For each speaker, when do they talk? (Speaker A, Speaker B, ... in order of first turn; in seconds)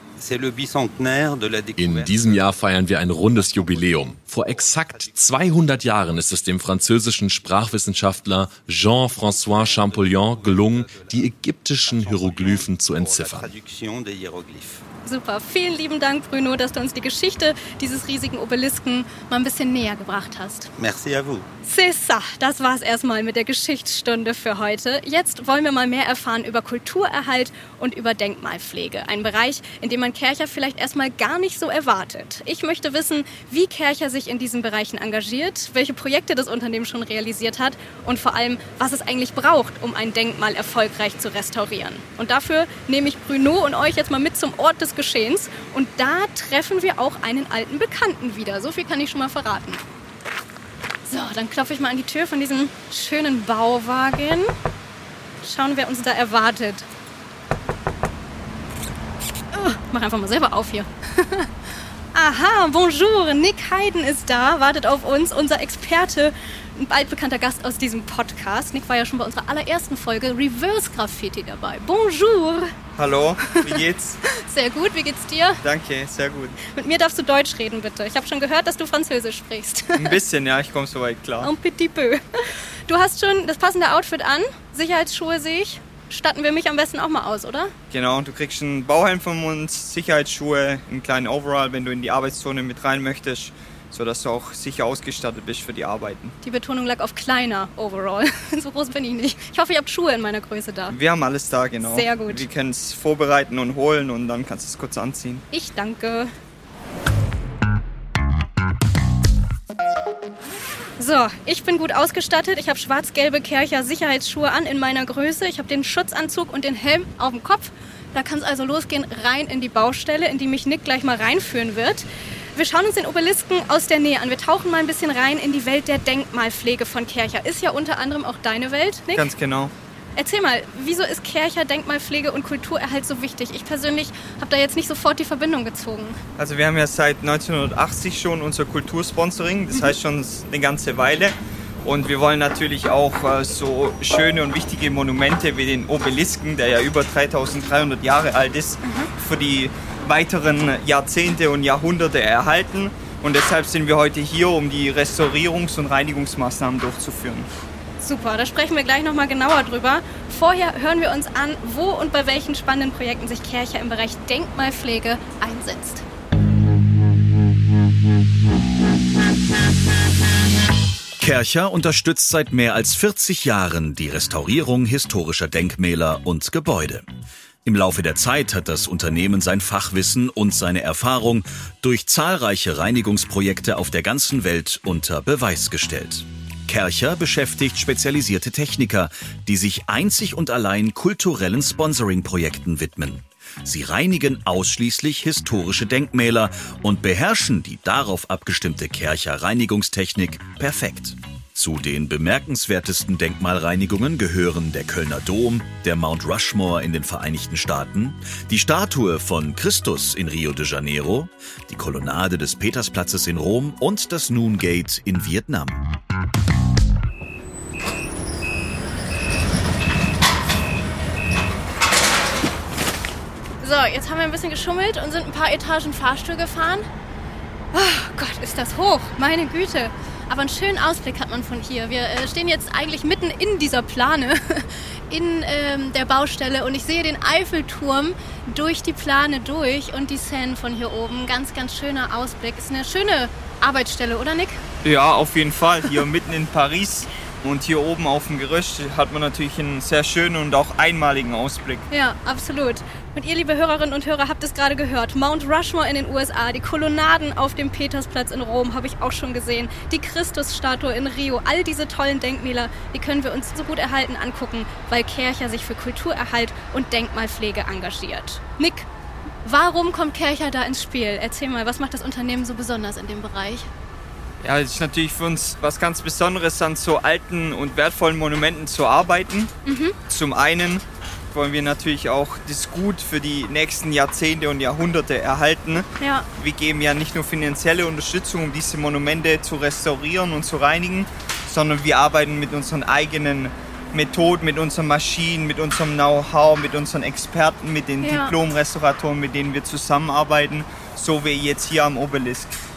Speaker A: 0.2-5.8, 9.0-14.8, 20.8-21.5
Speaker B: 1.8-13.5
Speaker C: 15.1-20.7, 21.6-49.8, 51.1-54.5, 55.4-56.9, 59.5-61.5, 62.1-72.7, 73.5-75.6, 76.6-80.2, 81.4-87.7, 96.4-101.0, 101.8-102.5, 105.5-106.3, 111.0-129.3, 130.2-136.2, 148.8-149.1, 158.0-166.0, 223.6-226.9, 227.7-244.6, 251.9-268.9, 269.4-273.7, 279.7-280.0, 286.0-286.3, 298.0-298.4
Speaker D: 73.0-74.2, 75.6-76.6, 80.0-81.5, 87.9-96.4, 100.9-105.4, 129.2-129.7, 136.4-157.5, 244.8-251.9, 274.4-279.5, 280.1-302.6
Speaker E: 171.2-177.1, 177.7-215.8